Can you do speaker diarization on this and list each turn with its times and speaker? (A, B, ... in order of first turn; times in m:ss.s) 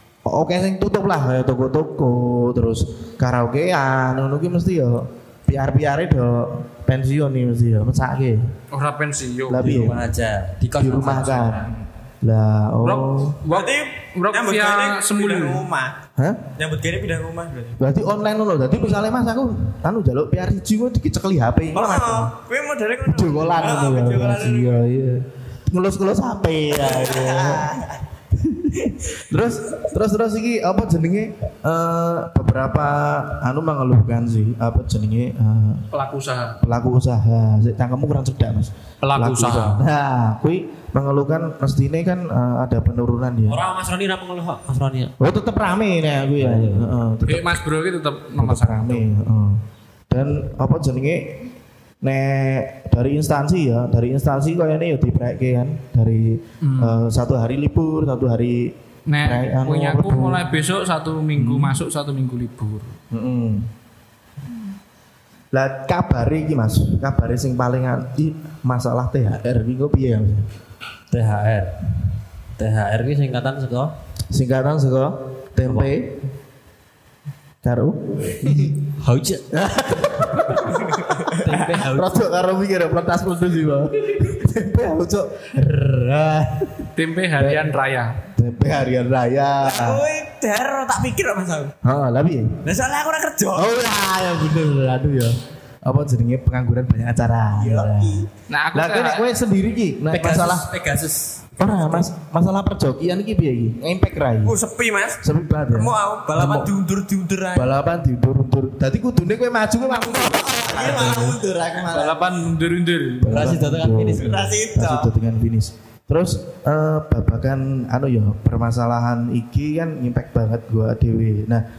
0:00.2-0:08.4 A
0:08.7-0:09.8 B
0:09.5-0:10.0 A
0:09.6-0:11.6 C
0:10.7-0:11.7 A
0:11.1-0:11.8 B
0:12.2-0:13.4 A
0:12.8-0:15.6 B
0:13.5-0:16.0 D
0:16.2-0:16.4 A
0:16.6-0:17.8 D
0:17.8-0:22.3 A
0:21.7-0:24.8 D
0:23.0-0:27.8 A
0:26.8-0:28.0 D
0:28.4-0:35.9 A
0:35.9-0:36.6 B
0:36.6-0:43.6 A
0:39.0-0:39.8 B
0:43.5-0:45.1 C
0:45.2-0:47.6 A
0:46.4-0:47.0 C
0:47.3-0:49.1 B
0:48.4-0:51.5 A
0:52.0-1:00.5 A
0:56.6-0:57.0 B
0:59.1-1:02.9 B
1:01.4-1:01.8 A
1:03.1-1:03.7 A
1:05.5-1:10.5 A
1:11.1-1:11.8 C
1:12.6-1:13.9 C
1:14.3-1:16.2 A
1:15.6-1:15.9 C
1:17.6-1:18.8 A
1:19.0-1:19.4 C
1:19.5-1:27.6 A
1:20.9-1:21.4 D
1:21.4-1:22.1 C
1:27.0-1:28.2 B
1:28.3-1:30.0 A
1:29.6-1:31.7 D
1:31.8-1:32.6 A
1:32.6-1:33.7 D
1:33.5-1:40.7 A
1:37.6-1:38.3 D
1:38.5-1:39.3 B
1:40.1-1:41.4 C
1:41.6-1:44.6 A
1:44.4-1:45.2 D
1:45.2-1:46.7 A
1:45.7-1:47.8 D
1:47.5-1:51.4 A
1:50.2-1:52.2 D
1:51.9-1:53.4 B
1:53.2-2:01.6 A
1:53.2-1:54.4 C
1:54.1-1:55.1 D